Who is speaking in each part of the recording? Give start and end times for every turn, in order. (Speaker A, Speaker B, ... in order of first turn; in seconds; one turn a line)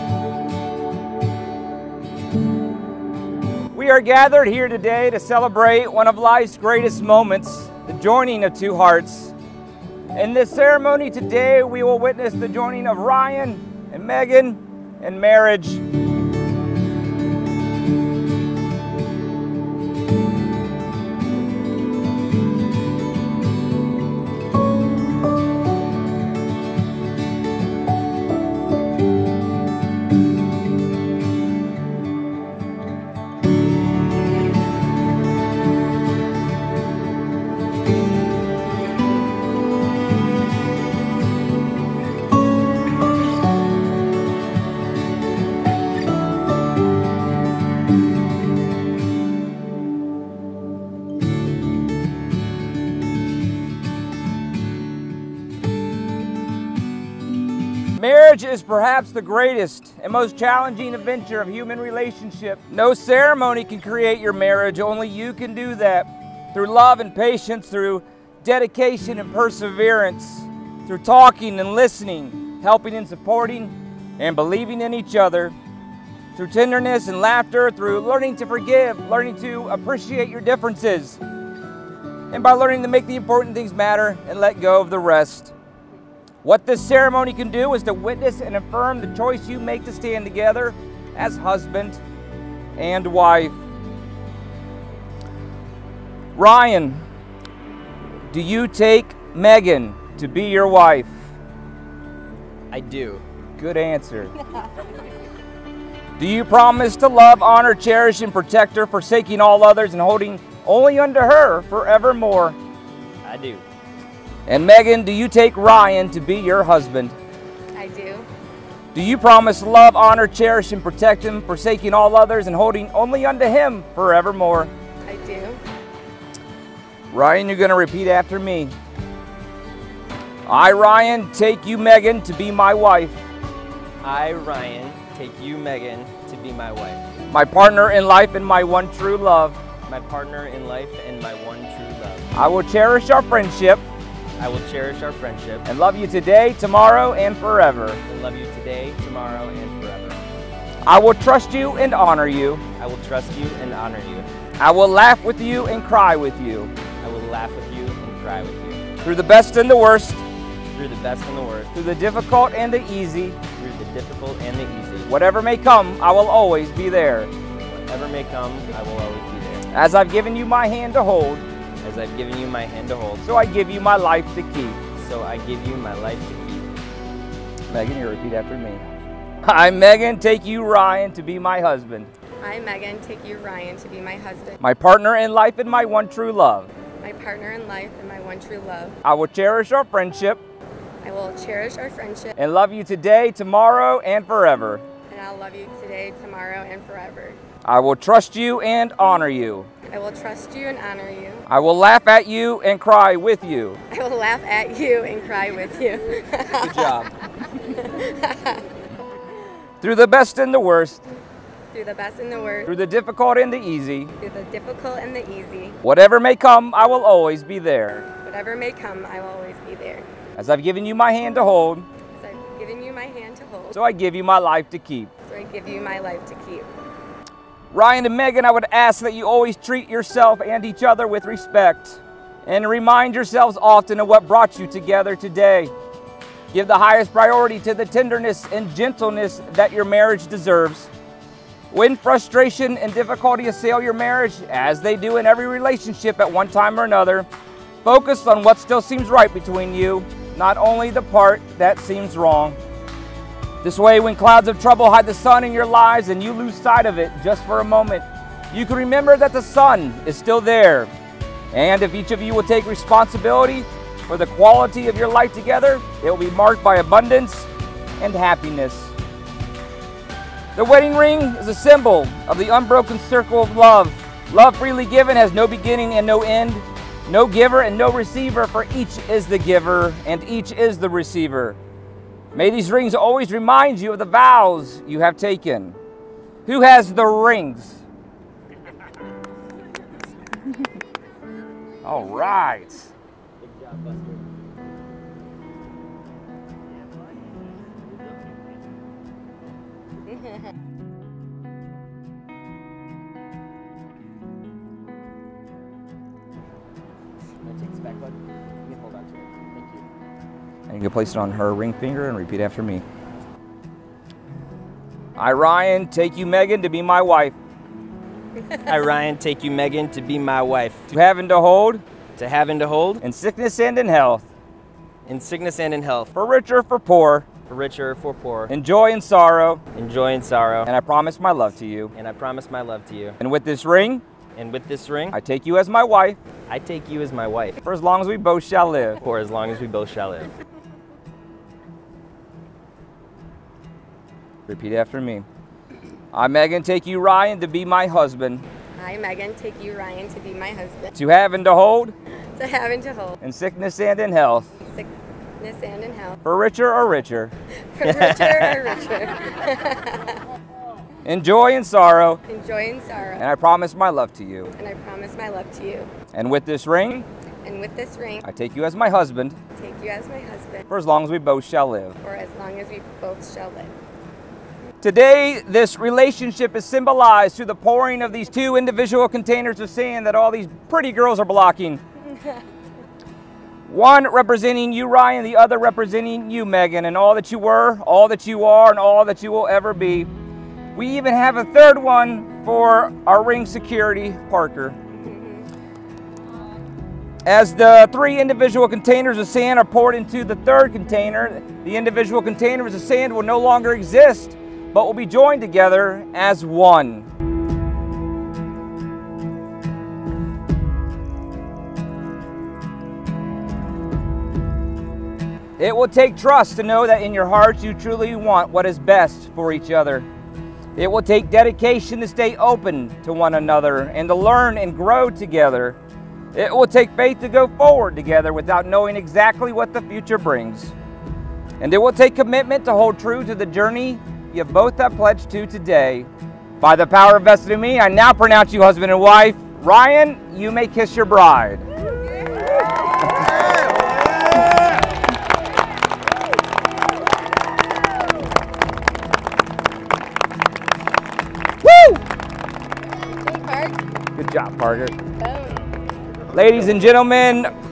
Speaker A: 3.7-9.3
Speaker A: 10.1-15.8
Speaker A: 58.0-75.5
Speaker A: 76.3-81.2
Speaker A: 82.3-85.5
Speaker A: 86.4-92.0
Speaker A: 92.8-93.5
Speaker A: 96.3-97.0
Speaker A: 98.3-101.1
Speaker B: 102.7-103.2
Speaker A: 103.6-104.4
Speaker A: 106.2-112.5
Speaker B: 113.2-113.6
Speaker A: 114.5-117.1
Speaker C: 117.7-118.3
Speaker A: 118.9-124.7
Speaker C: 125.0-125.6
Speaker A: 127.1-128.7
Speaker A: 130.5-133.2
Speaker B: 134.0-137.0
Speaker A: 137.3-139.6
Speaker B: 139.8-142.3
Speaker A: 142.3-143.8
Speaker B: 144.4-145.7
Speaker A: 145.7-148.0
Speaker B: 148.1-150.2
Speaker A: 150.8-152.6
Speaker B: 152.8-154.3
Speaker A: 154.6-156.7
Speaker B: 157.0-158.9
Speaker A: 159.0-160.2
Speaker B: 160.7-161.7
Speaker A: 161.7-163.4
Speaker B: 163.5-165.1
Speaker A: 165.1-167.3
Speaker B: 167.9-169.6
Speaker A: 169.7-171.4
Speaker B: 171.8-173.3
Speaker A: 173.2-174.8
Speaker B: 174.9-176.7
Speaker A: 177.7-178.8
Speaker A: 179.4-182.1
Speaker C: 182.4-184.6
Speaker A: 184.6-186.7
Speaker C: 187.0-189.0
Speaker A: 189.0-190.4
Speaker C: 191.0-192.3
Speaker A: 192.4-194.8
Speaker C: 195.1-197.4
Speaker A: 197.6-199.7
Speaker C: 199.9-201.5
Speaker A: 201.5-203.8
Speaker C: 203.9-207.0
Speaker A: 206.6-207.1
Speaker C: 207.6-208.7
Speaker A: 209.8-211.0
Speaker C: 211.7-212.7
Speaker A: 212.7-214.1
Speaker C: 214.2-215.8
Speaker A: 215.8-218.0
Speaker C: 218.1-220.1
Speaker A: 220.3-221.9
Speaker C: 222.1-223.8
Speaker A: 223.7-225.1
Speaker C: 225.2-226.7
Speaker A: 227.7-235.7
Speaker A: 236.5-240.9
Speaker A: 241.7-247.3
Speaker A: 247.8-252.6
Speaker A: 253.6-260.9
Speaker A: 261.5-268.9
Speaker A: 270.5-281.6
Speaker A: 282.3-285.8
Speaker A: 286.4-287.8
Speaker A: 291.8-292.9
Speaker B: 293.4-294.2
Speaker B: 307.4-309.8
Speaker A: 310.7-312.8
Speaker A: 315.2-317.3
Speaker B: 318.7-320.9
Speaker A: 320.9-321.8
Speaker B: 322.2-323.0
Speaker A: 323.0-324.2
Speaker B: 325.1-326.1
Speaker A: 326.1-327.3
Speaker B: 327.4-328.5
Speaker A: 328.5-329.6
Speaker B: 329.7-330.7
Speaker A: 330.7-331.9
Speaker B: 331.9-333.1
Speaker A: 333.2-334.0
Speaker B: 334.4-335.2
Speaker A: 335.1-336.2
Speaker B: 336.5-337.6
Speaker A: 337.6-339.0
Speaker B: 339.0-340.3
Speaker A: 344.5-345.2
Speaker A: 346.1-348.4
Speaker C: 348.8-350.9
Speaker A: 350.9-351.9
Speaker C: 352.4-353.2
Speaker A: 353.2-354.5
Speaker C: 354.6-356.2
Speaker A: 356.2-357.3
Speaker C: 357.7-360.2
Speaker B: 357.8-358.8
Speaker A: 361.0-362.2
Speaker C: 362.3-363.2
Speaker A: 363.2-364.5
Speaker C: 364.6-365.9
Speaker A: 366.1-367.1
Speaker C: 367.4-368.2
Speaker A: 368.2-369.4
Speaker C: 369.6-370.6
Speaker A: 370.7-372.0
Speaker C: 372.0-373.7
Speaker A: 374.8-381.8
Speaker A: 383.7-390.1
Speaker A: 390.7-394.8
Speaker C: 394.9-395.5
Speaker A: 397.2-407.1
Speaker A: 415.6-420.1
Speaker A: 420.8-425.8
Speaker A: 426.3-430.7
Speaker A: 431.6-436.1
Speaker A: 436.6-441.6
Speaker A: 451.6-452.0
Speaker C: 452.9-453.8
Speaker A: 454.1-454.9
Speaker C: 455.1-455.6
Speaker A: 456.3-457.5